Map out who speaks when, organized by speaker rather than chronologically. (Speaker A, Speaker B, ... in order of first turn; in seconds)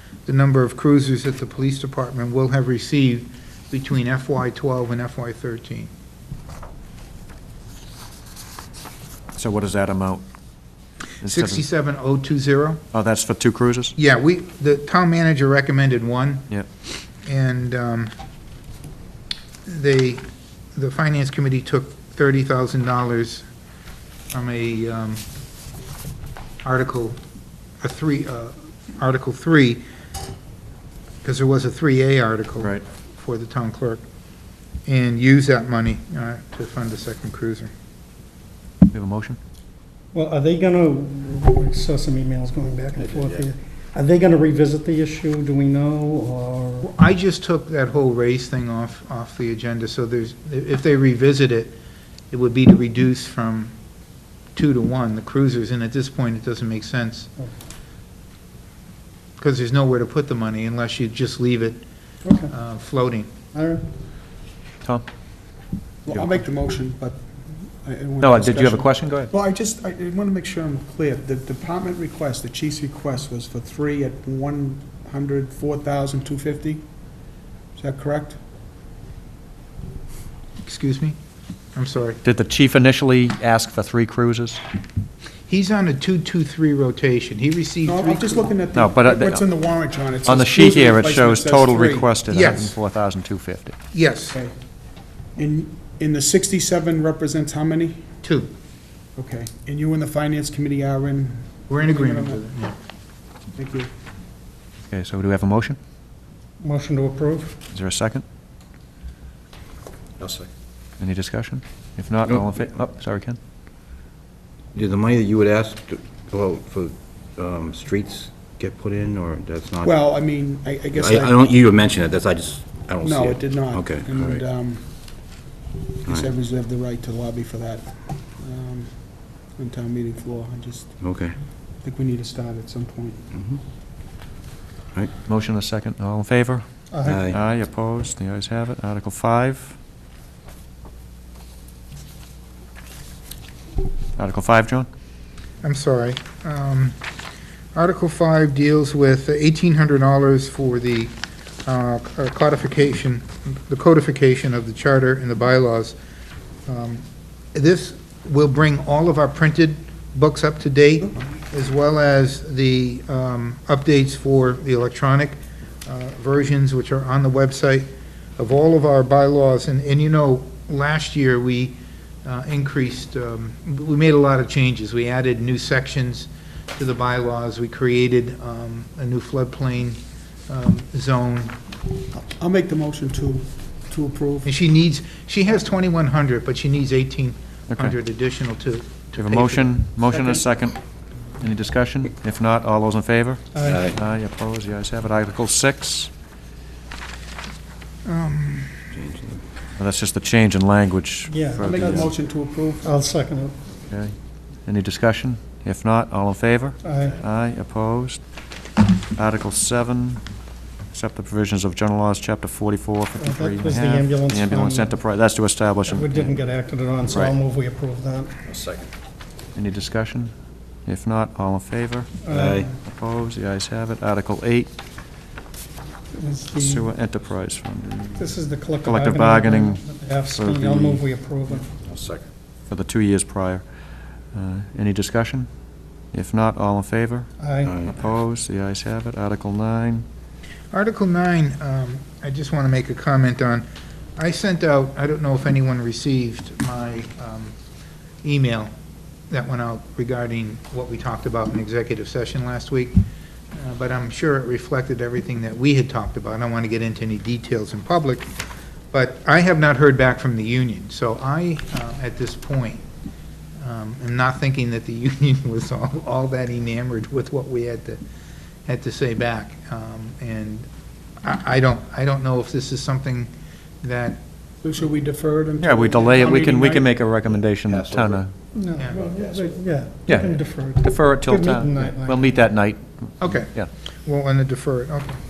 Speaker A: 0.2-5.9, 11.2-12.8, 13.9-16.5, 17.2-18.1, 19.6-20.2, 20.8-23.4, 24.3-25.2, 26.6-27.2, 27.8-29.8, 31.2-34.0, 34.9-37.7, 46.8-51.8, 52.3-53.7, 54.5-57.3, 59.4-61.8, 62.5-63.3, 80.6-81.2, 81.7-82.2, 85.5-88.5, 92.3-92.7, 93.9-94.4, 98.2-98.5, 101.7-102.8, 145.6-147.0, 147.7-151.1, 151.6-156.0, 156.7-181.6, 184.4-189.8, 198.1-198.7, 240.7-247.5, 248.2-248.7, 249.3-253.0, 253.5-258.3, 258.9-262.8, 263.6-268.0, 268.6-270.7, 271.2-273.3, 273.8-274.2, 283.2-283.5, 284.1-285.2
Speaker B: 9.3-10.2, 11.2-11.6, 12.9-13.9, 38.9-39.4, 66.1-66.3, 68.2-69.3, 82.2-84.6, 88.7-89.4, 90.2-93.7, 104.9-105.8, 107.7-108.2, 111.0-113.4, 135.2-136.6, 137.3-139.8, 144.2-144.9, 189.2-190.8, 191.3-196.1, 199.8-202.1, 203.9-204.1, 204.7-208.2, 209.1-210.2, 210.9-216.4, 217.1-217.3, 219.5-220.3, 220.8-222.1, 222.8-224.7, 226.5-231.0, 232.7-233.6, 234.3-235.5, 236.1-237.3, 237.8-240.0, 275.6-278.3, 280.1-283.7
Speaker C: 40.1-46.9, 63.5-63.9, 106.6-107.5, 136.9-137.3, 193.5-193.9, 201.3-202.1, 202.8-203.6, 206.8-207.2, 213.2-215.0, 215.8-218.3, 222.2-222.7, 226.1-226.9, 228.2-231.7, 237.4-237.8, 278.5-282.5
Speaker D: 43.1-43.4, 110.2-110.5, 114.7-120.0, 120.9-124.4, 131.0-131.3, 133.3-133.6, 137.1-137.4, 193.7-194.0, 198.9-199.4, 218.4-218.9, 222.3-222.7, 231.8-232.2, 237.6-238.0, 277.7-278.3
Speaker E: 66.0-77.2, 77.7-78.4, 87.8-92.1, 94.3-98.1, 99.2-102.4, 103.5-103.9, 119.8-121.4, 123.0-125.4, 126.0-131.1, 131.8-133.3, 182.4-184.5, 201.6-202.9, 274.6-276.9, 278.9-279.7